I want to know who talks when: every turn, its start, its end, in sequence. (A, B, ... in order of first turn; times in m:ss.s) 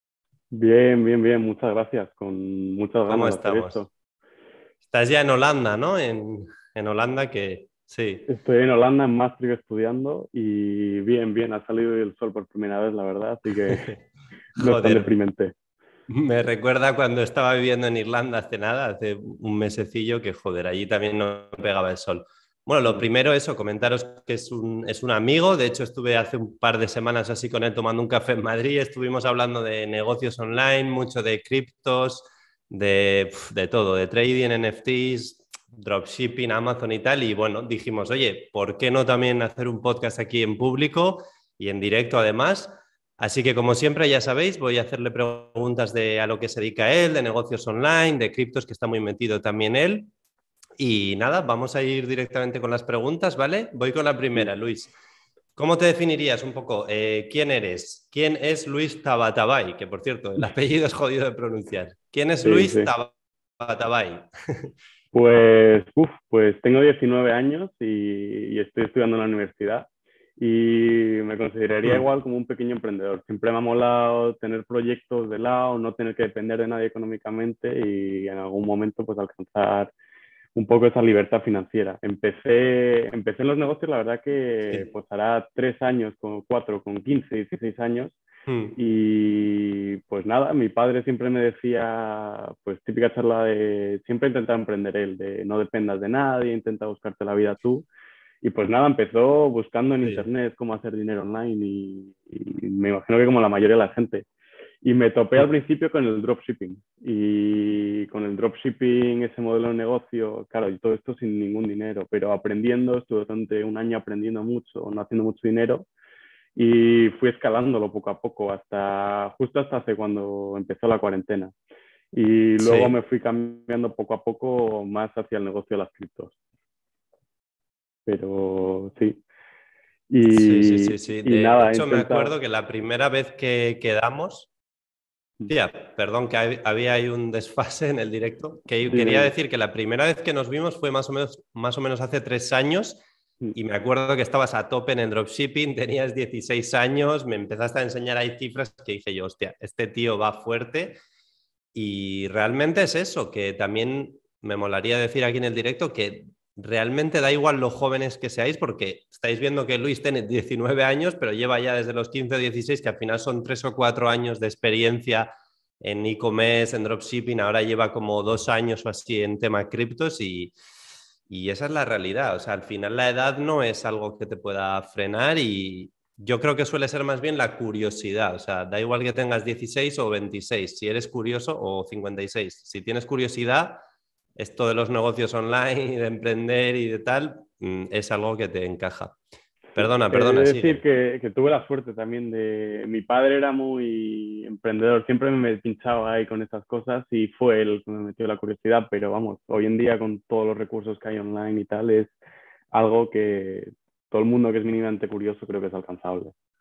0:00.5-0:03.9 A
0:03.1-0:03.8 B
0:04.8-0:08.3 B
0:08.3-0:13.9 A
0:13.6-0:14.0 B
0:14.6-0:15.1 B
0:14.6-0:15.5 A
0:16.1-0:50.1 B
0:50.8-0:54.9 B
0:55.6-1:04.7 B
1:02.4-1:02.9 A
1:05.1-1:19.9 A
1:20.5-1:28.2 A
1:28.5-1:28.8 B
1:28.8-1:37.8 A
1:38.4-1:44.2 A
1:44.8-1:55.9 A
1:56.6-2:01.5 A
2:02.1-2:06.3 A
2:02.6-2:02.9 B
2:08.0-2:09.2 A
2:10.1-2:12.3 A
2:10.2-2:14.5 B
2:15.5-2:31.0 B
2:18.9-2:19.3 A
2:31.7-2:50.5 B
2:51.3-3:03.8 B
3:04.4-3:09.2 B
3:09.7-3:22.2 A
3:09.7-3:10.8 B
3:22.7-3:26.3 A